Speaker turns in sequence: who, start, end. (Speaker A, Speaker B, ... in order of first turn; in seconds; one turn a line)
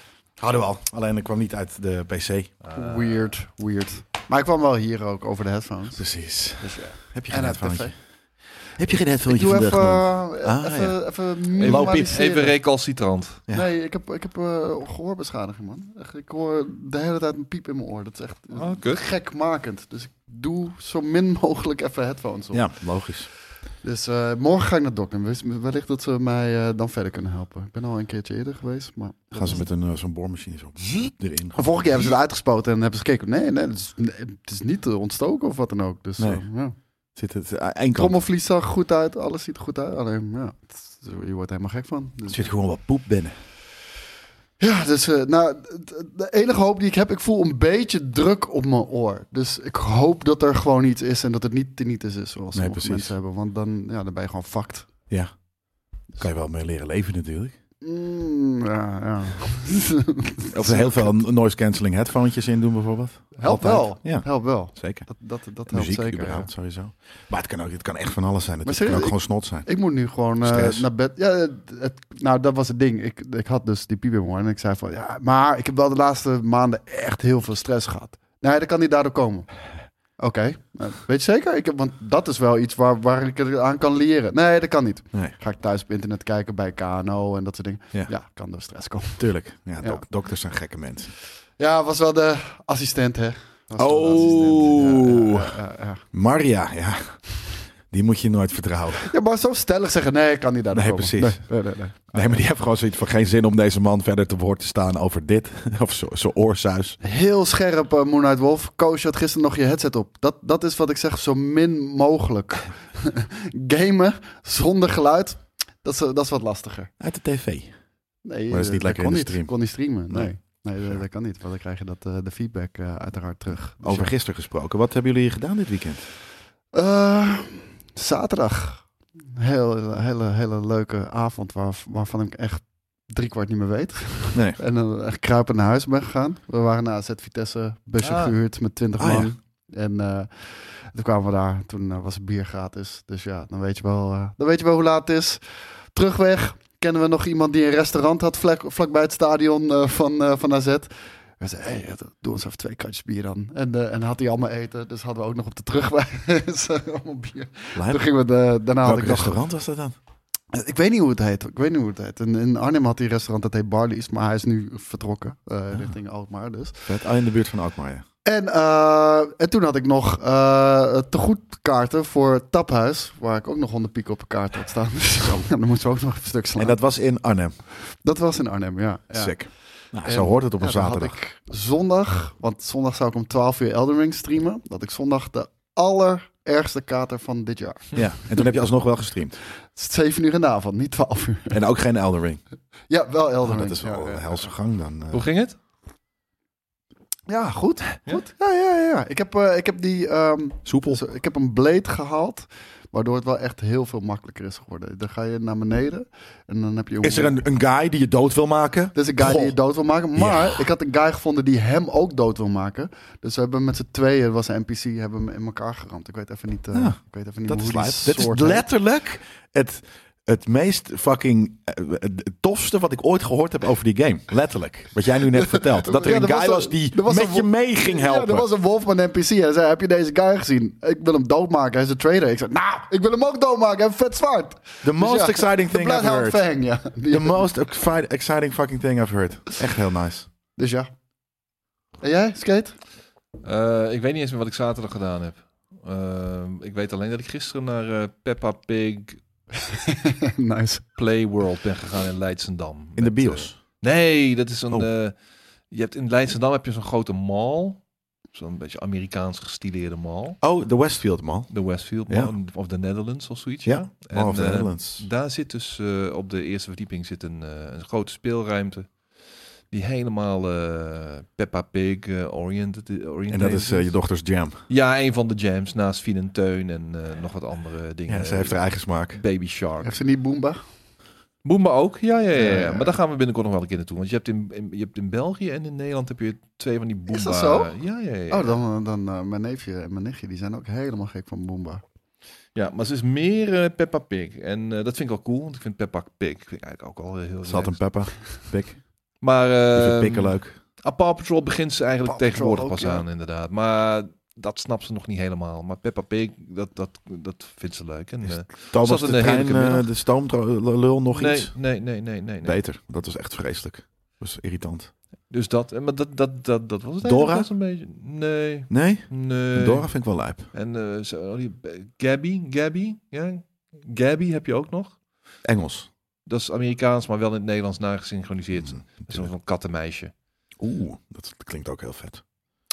Speaker A: 0.4-2.5
Speaker B: 2.6-3.3
Speaker C: 2.7-6.0
Speaker A: 6.0-7.9
Speaker C: 6.6-7.9
Speaker A: 8.8-11.0
Speaker C: 9.2-12.6
Speaker B: 11.6-13.4
Speaker A: 11.6-12.2
Speaker C: 13.5-22.7
Speaker B: 18.5-19.1
Speaker A: 22.5-23.3
Speaker C: 23.8-29.6
Speaker A: 29.3-31.7
Speaker C: 31.5-36.7
Speaker A: 37.1-38.2
Speaker C: 37.9-42.5
Speaker A: 42.3-43.4
Speaker C: 44.6-54.9
Speaker A: 52.5-53.1
Speaker A: 56.1-57.5
Speaker C: 57.8-61.1
Speaker A: 60.5-65.1
Speaker C: 63.4-66.5
Speaker A: 65.7-69.7
Speaker C: 68.6-79.5
Speaker A: 70.4-70.8
Speaker C: 80.2-89.2
Speaker A: 89.2-91.1
Speaker C: 91.6-96.0
Speaker A: 93.8-95.5
Speaker A: 96.1-97.2
Speaker A: 97.9-99.1
Speaker C: 99.0-102.4
Speaker A: 100.7-101.5
Speaker A: 102.1-107.0
Speaker C: 107.0-116.9
Speaker A: 117.0-117.7
Speaker C: 118.2-124.1
Speaker A: 118.5-119.5
Speaker A: 123.8-126.0
Speaker C: 126.7-159.4
Speaker B: 138.0-138.3
Speaker A: 139.0-139.3
Speaker A: 157.7-158.1
Speaker A: 158.8-159.9
Speaker C: 160.5-166.9
Speaker A: 166.9-168.0
Speaker C: 168.2-176.8
Speaker A: 176.6-177.5
Speaker C: 177.8-179.4
Speaker A: 179.1-181.1
Speaker C: 180.0-188.5
Speaker A: 187.9-189.4
Speaker C: 189.7-191.6
Speaker A: 191.5-192.4
Speaker C: 192.9-194.5
Speaker A: 193.4-195.2
Speaker B: 195.1-195.6
Speaker C: 197.3-207.3
Speaker A: 200.6-201.0
Speaker A: 207.0-209.6
Speaker C: 208.9-218.6
Speaker A: 210.2-210.7
Speaker A: 216.7-228.5
Speaker C: 225.4-237.5
Speaker A: 234.8-236.4
Speaker A: 237.1-240.3
Speaker C: 240.6-240.9
Speaker C: 242.0-242.7
Speaker B: 243.4-249.2
Speaker C: 249.5-250.9
Speaker B: 251.0-255.1
Speaker A: 253.0-253.6
Speaker B: 255.7-257.8
Speaker B: 258.3-260.4
Speaker A: 260.4-261.5
Speaker B: 261.5-269.0
Speaker A: 262.1-262.3
Speaker A: 263.6-265.1
Speaker B: 269.7-273.9
Speaker A: 273.3-274.6
Speaker B: 274.7-279.9
Speaker A: 278.1-279.2
Speaker C: 279.8-280.6
Speaker B: 281.4-288.6
Speaker C: 282.3-282.9
Speaker C: 287.1-287.7
Speaker C: 288.3-291.8
Speaker B: 292.5-297.8
Speaker A: 297.4-298.8
Speaker B: 299.2-309.9
Speaker A: 299.7-300.6
Speaker C: 302.1-303.0
Speaker A: 308.2-311.5
Speaker B: 311.1-312.6
Speaker A: 312.4-314.9
Speaker B: 315.3-319.9
Speaker A: 317.0-317.5
Speaker A: 318.7-320.5
Speaker B: 320.5-324.9
Speaker A: 325.4-325.9
Speaker B: 326.2-330.1
Speaker A: 328.8-329.3
Speaker A: 330.6-332.2